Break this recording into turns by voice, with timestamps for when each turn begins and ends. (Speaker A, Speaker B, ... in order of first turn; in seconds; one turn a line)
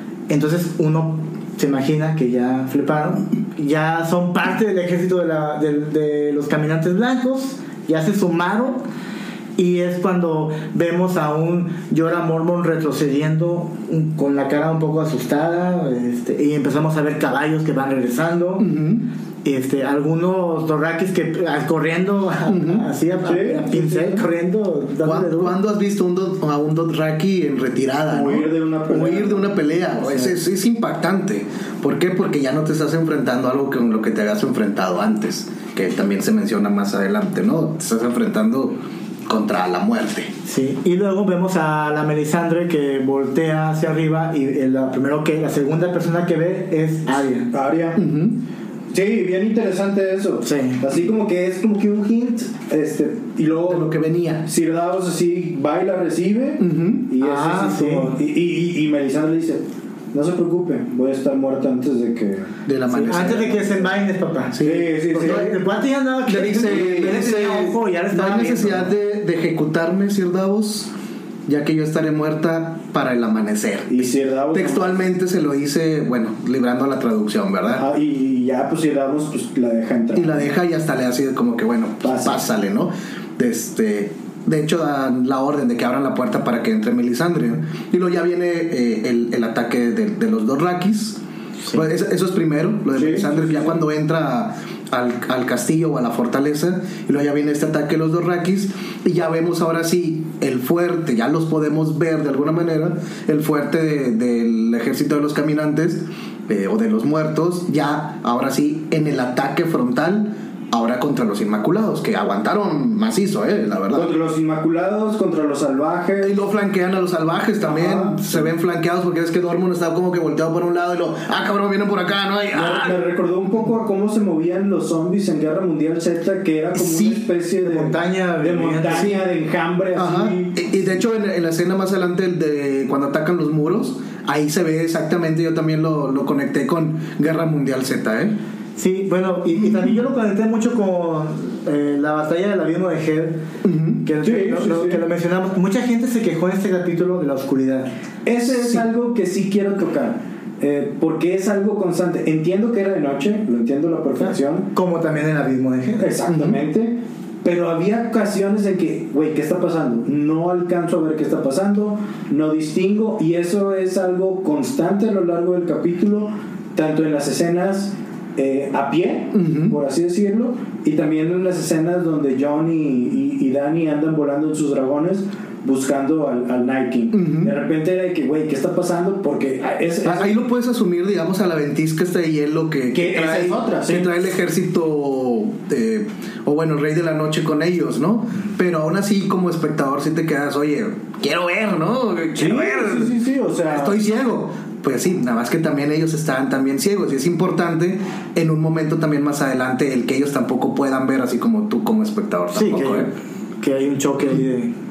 Speaker A: 0.3-8.8
Speaker A: 9.6-18.7
Speaker B: 18.6-19.1
Speaker A: 19.4-25.6
Speaker B: 22.5-22.9
Speaker C: 23.2-24.2
Speaker B: 25.0-40.3
Speaker C: 28.0-29.6
Speaker A: 40.5-47.5
Speaker C: 47.5-48.0
Speaker B: 48.0-48.4
Speaker C: 48.9-62.5
Speaker A: 50.4-50.8
Speaker B: 53.7-54.5
Speaker B: 56.6-57.1
Speaker A: 57.2-58.1
Speaker B: 62.6-63.9
Speaker A: 62.9-68.9
Speaker B: 64.5-65.5
Speaker C: 64.6-65.5
Speaker B: 66.3-70.9
Speaker C: 66.6-67.2
Speaker B: 71.5-77.8
Speaker C: 73.9-75.0
Speaker C: 77.8-80.5
Speaker B: 80.1-114.1
Speaker C: 82.0-82.4
Speaker C: 92.9-93.7
Speaker C: 113.9-116.3
Speaker B: 116.2-123.0
Speaker C: 117.6-118.5
Speaker C: 122.5-130.6
Speaker B: 126.7-127.2
Speaker A: 127.6-129.1
Speaker B: 129.9-138.3
Speaker A: 138.8-143.4
Speaker B: 143.6-144.0
Speaker A: 144.0-147.9
Speaker C: 144.2-145.0
Speaker C: 148.2-154.7
Speaker B: 148.5-148.8
Speaker A: 154.2-156.1
Speaker C: 156.0-180.4
Speaker B: 156.2-156.6
Speaker B: 169.3-169.8
Speaker B: 177.1-177.5
Speaker B: 180.0-193.1
Speaker C: 182.9-184.1
Speaker C: 192.3-194.0
Speaker B: 193.7-203.1
Speaker A: 202.5-204.7